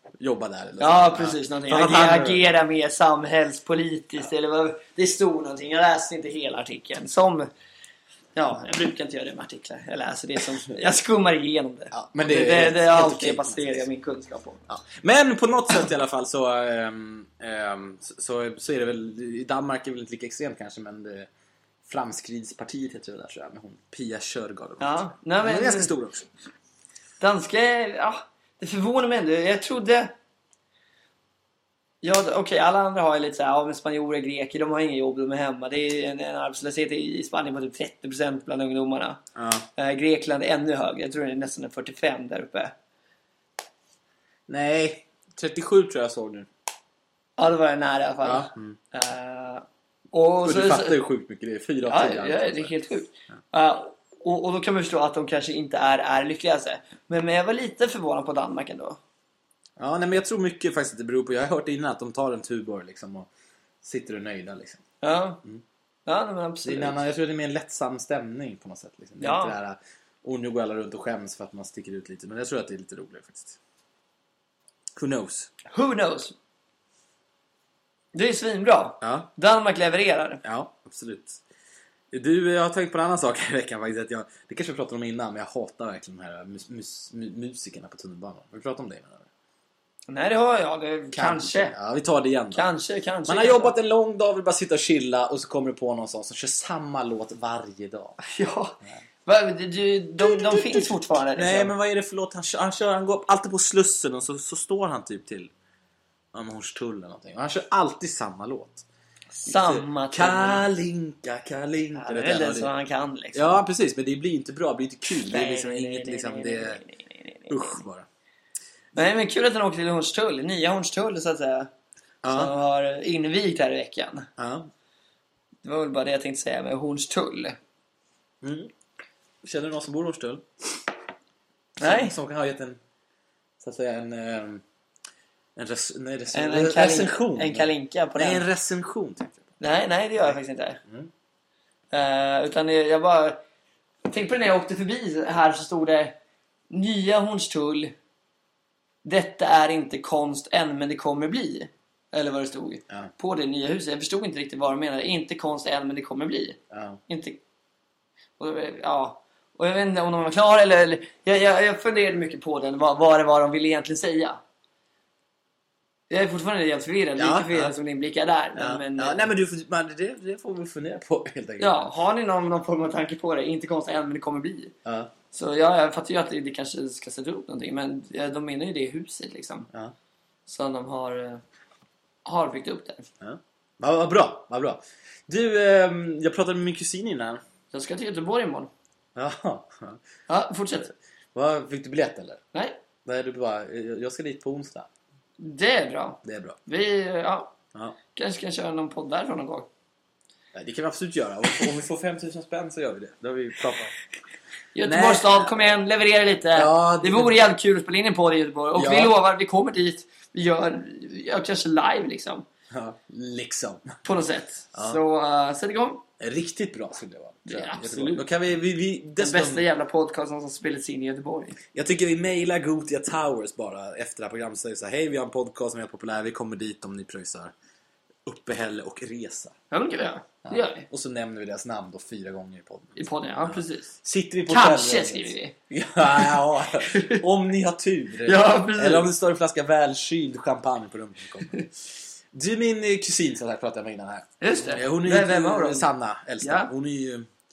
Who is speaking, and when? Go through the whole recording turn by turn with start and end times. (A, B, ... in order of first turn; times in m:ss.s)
0:00.2-0:02.4 A
0:00.8-0:07.5 B
0:08.4-0:14.7 B
0:11.9-0:13.9 A
0:14.7-0:21.3 A
0:21.9-0:26.3 A
0:24.8-0:25.9 B
0:27.2-0:30.1 B
0:32.0-0:39.2 B
0:39.4-0:39.7 A
0:39.8-0:42.8 B
0:44.5-0:46.5 A
0:47.4-0:51.0 B
0:48.2-0:48.8 A
0:50.4-0:52.8 A
0:51.9-0:59.0 B
0:59.8-1:03.3 A
1:03.8-1:04.8 A
1:05.0-1:05.4 B
1:06.1-1:07.0 B
1:06.6-1:13.6 A
1:09.2-1:09.6 B
1:15.0-1:15.5 A
1:15.7-1:16.4 B
1:18.1-1:20.4 B
1:19.0-1:19.3 A
1:20.4-1:21.4 A
1:22.1-1:29.3 A
1:30.1-1:31.8 B
1:31.1-1:32.7 A
1:32.5-1:33.7 B
1:33.3-1:38.2 A
1:38.2-1:41.7 B
1:40.2-1:45.5 A
1:46.3-1:48.9 A
1:49.4-1:50.7 B
1:49.5-1:52.7 A
1:52.0-1:53.6 B
1:53.3-1:56.8 A
1:55.2-1:57.8 B
1:57.5-1:58.1 A
1:59.0-2:01.7 B
2:02.2-2:02.5 A
2:02.3-2:04.3 B
2:04.4-2:04.7 A
2:05.6-2:07.6 B
2:08.4-2:08.7 A
2:09.4-2:10.8 A
2:11.8-2:12.8 A
2:11.8-2:12.1 B
2:13.6-2:14.6 A
2:15.6-2:19.5 A
2:16.3-2:18.4 B
2:19.6-2:20.8 B
2:20.8-2:21.1 A
2:21.9-2:23.4 B
2:24.1-2:26.2 B
2:26.7-2:27.9 B
2:29.0-2:37.4 B
2:36.7-2:37.0 A
2:38.4-2:44.4 B
2:46.1-2:49.3 B
2:47.2-2:47.7 A
2:48.6-2:51.9 A
2:51.6-2:54.8 B
2:54.8-2:55.1 A
2:55.3-2:59.7 B
3:00.5-3:01.4 B
3:02.2-3:03.1 B
3:03.2-3:07.4 A
3:07.7-3:08.7 B
3:09.2-3:10.0 A
3:10.3-3:10.9 B
3:10.8-3:12.4 A
3:13.1-3:14.9 A
3:15.4-3:17.6 B
3:16.2-3:16.6 A
3:18.1-3:19.7 B
3:20.5-3:24.0 A
3:24.7-3:32.4 B
3:24.9-3:25.6 A
3:26.6-3:27.4 A
3:28.8-3:29.2 A
3:32.7-3:34.0 A
3:34.0-3:36.0 B
3:34.7-3:35.0 A
3:36.2-3:39.7 A
3:37.5-3:38.3 B
3:39.2-3:41.6 B
3:41.7-3:47.5 A
3:48.3-3:49.6 A
3:49.7-3:50.9 B
3:50.4-4:07.3 A
3:53.0-3:53.9 B
3:54.5-3:55.6 B
3:56.2-3:57.2 B
3:58.2-3:59.1 B
4:04.4-4:05.9 B
4:06.4-4:06.7 B